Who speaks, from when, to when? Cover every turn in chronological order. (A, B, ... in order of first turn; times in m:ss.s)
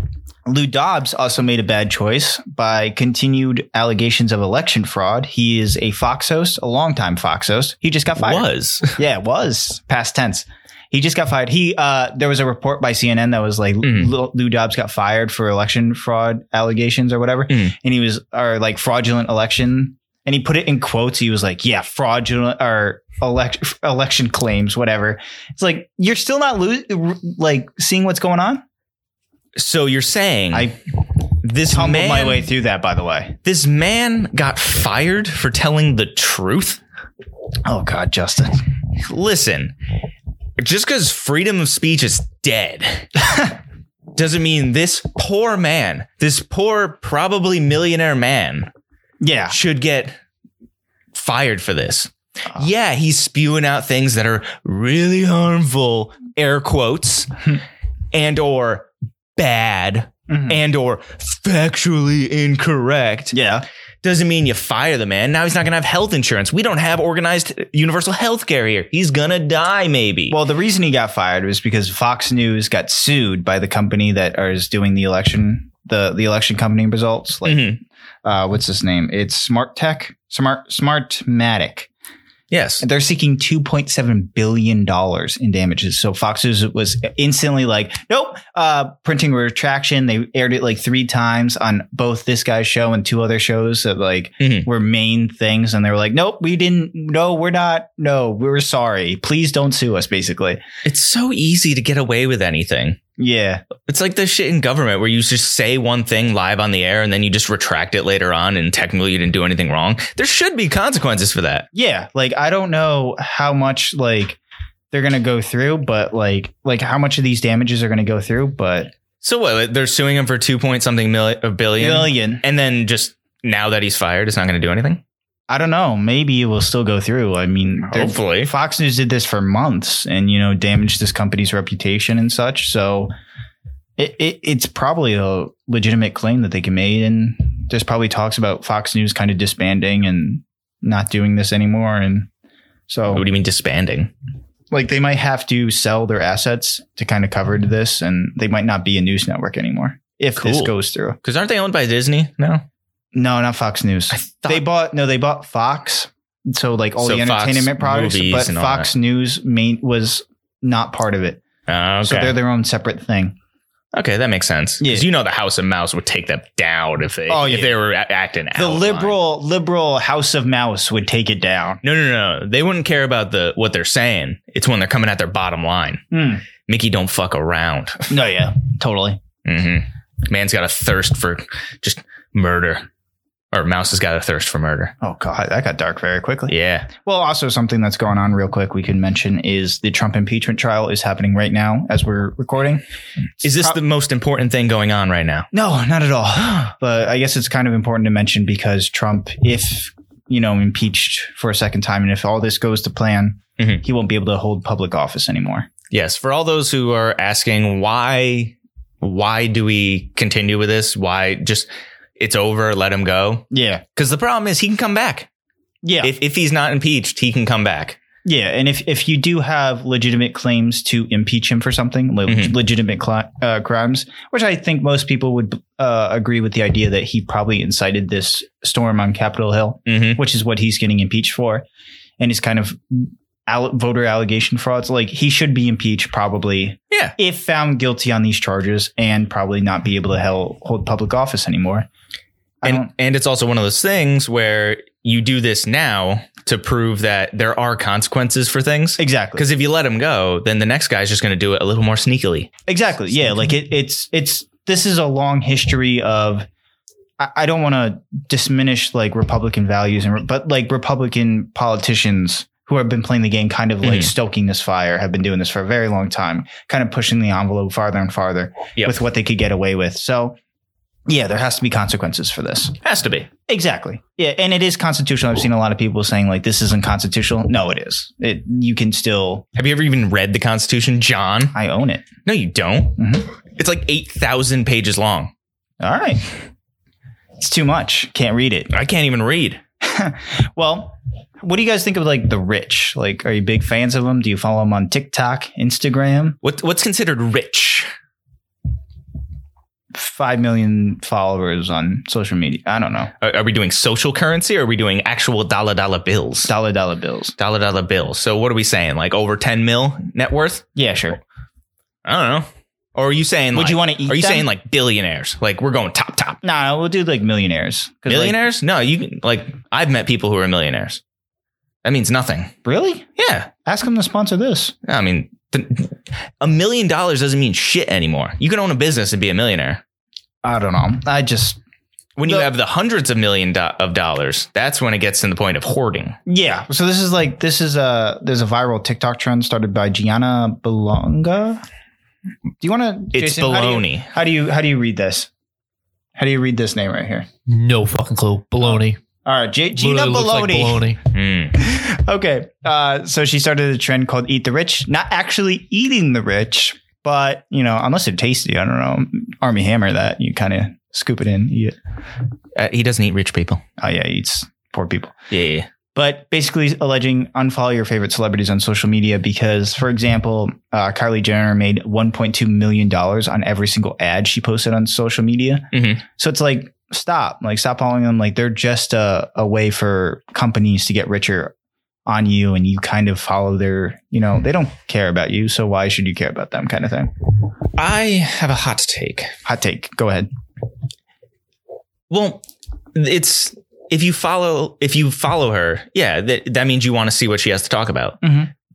0:00.4-0:28.6 A
0:08.2-0:09.0 B
0:13.8-0:14.1 B
0:17.5-0:17.7 B
0:29.6-0:30.7 B
0:31.4-0:32.5 B
0:31.7-0:33.4 A
0:33.4-0:36.8 B
0:37.6-0:38.6 A
0:39.0-0:39.7 B
0:40.6-0:43.1 B
0:43.2-0:43.5 A
0:44.1-0:48.7 B
0:49.2-0:49.6 A
0:49.5-0:50.2 B
0:51.1-0:57.3 B
0:58.1-1:03.3 B
1:00.3-1:00.6 A
1:03.3-1:03.6 A
1:04.0-1:10.4 B
1:10.3-1:21.9 A
1:17.4-1:17.8 B
1:22.5-1:22.8 B
1:22.8-1:40.6 A
1:34.4-1:34.7 B
1:40.8-1:43.0 B
1:43.2-1:43.6 A
1:43.8-1:51.7 B
1:51.7-1:54.4 A
1:54.9-1:58.9 A
1:59.2-2:05.0 B
2:01.8-2:02.4 A
2:05.5-2:13.1 A
2:07.9-2:08.5 B
2:14.0-2:22.3 A
2:22.9-2:23.2 A
2:23.1-2:24.1 B
2:24.7-2:31.2 A
2:30.4-2:32.6 B
2:33.1-2:41.4 A
2:34.1-2:34.6 B
2:37.0-2:38.9 B
2:41.7-2:42.4 B
2:42.0-2:43.4 A
2:43.9-2:49.2 B
2:44.8-2:45.0 A
2:47.3-2:47.8 A
2:48.5-2:51.8 A
2:51.8-2:58.1 B
2:56.1-2:56.4 A
2:58.1-2:59.2 A
2:59.4-3:02.8 B
3:03.5-3:04.9 B
3:05.0-3:12.8 A
3:06.5-3:06.9 B
3:13.4-3:13.8 A
3:13.4-3:15.5 B
3:15.5-3:25.7 A
3:25.9-3:35.3 B
3:33.5-3:33.8 A
3:35.8-3:36.1 A
3:36.0-3:38.0 B
3:38.2-3:51.6 A
3:42.3-3:42.5 B
3:49.9-3:50.2 B
3:52.2-4:01.9 A
4:02.6-4:02.9 A
4:02.6-4:12.5 B
4:09.0-4:09.4 A
4:12.7-4:16.5 A
4:17.2-4:30.4 A
4:23.8-4:24.1 B
4:31.1-4:32.7 A
4:32.8-4:33.3 B
4:33.5-4:39.4 A
4:39.5-4:41.5 B
4:41.5-4:42.1 A
4:42.2-4:43.0 B
4:43.0-4:43.3 A
4:43.5-4:45.3 B
4:45.8-4:46.4 A
4:47.4-4:48.7 A
4:48.7-4:49.6 B
4:49.8-4:56.4 A
4:56.4-4:57.9 B
4:59.9-5:03.1 A
5:03.2-5:06.5 B
5:06.4-5:07.3 A
5:07.4-5:10.6 B
5:10.7-5:11.2 A
5:12.0-5:16.4 B
5:13.5-5:14.5 A
5:16.4-5:18.4 A
5:18.0-5:21.0 B
5:21.8-5:22.5 B
5:22.6-5:23.1 A
5:23.2-5:23.5 B
5:23.6-5:24.7 A
5:24.8-5:29.8 B
5:30.4-5:31.6 A
5:32.2-5:36.2 B
5:36.3-5:41.6 A
5:42.6-5:45.3 A
5:43.1-5:44.1 B
5:46.2-5:47.3 A
5:47.5-5:49.0 C
5:48.6-5:50.9 A
5:49.8-5:51.0 C
5:51.1-5:51.5 B
5:51.5-6:01.8 A
6:02.5-6:03.6 B
6:03.8-6:05.1 A
6:05.3-6:05.7 B
6:05.9-6:21.5 A
6:15.7-6:16.0 B
6:22.0-6:27.1 A
6:27.8-6:29.3 B
6:29.4-6:30.3 A
6:32.1-6:32.4 B
6:32.9-6:38.2 B
6:38.2-6:38.5 A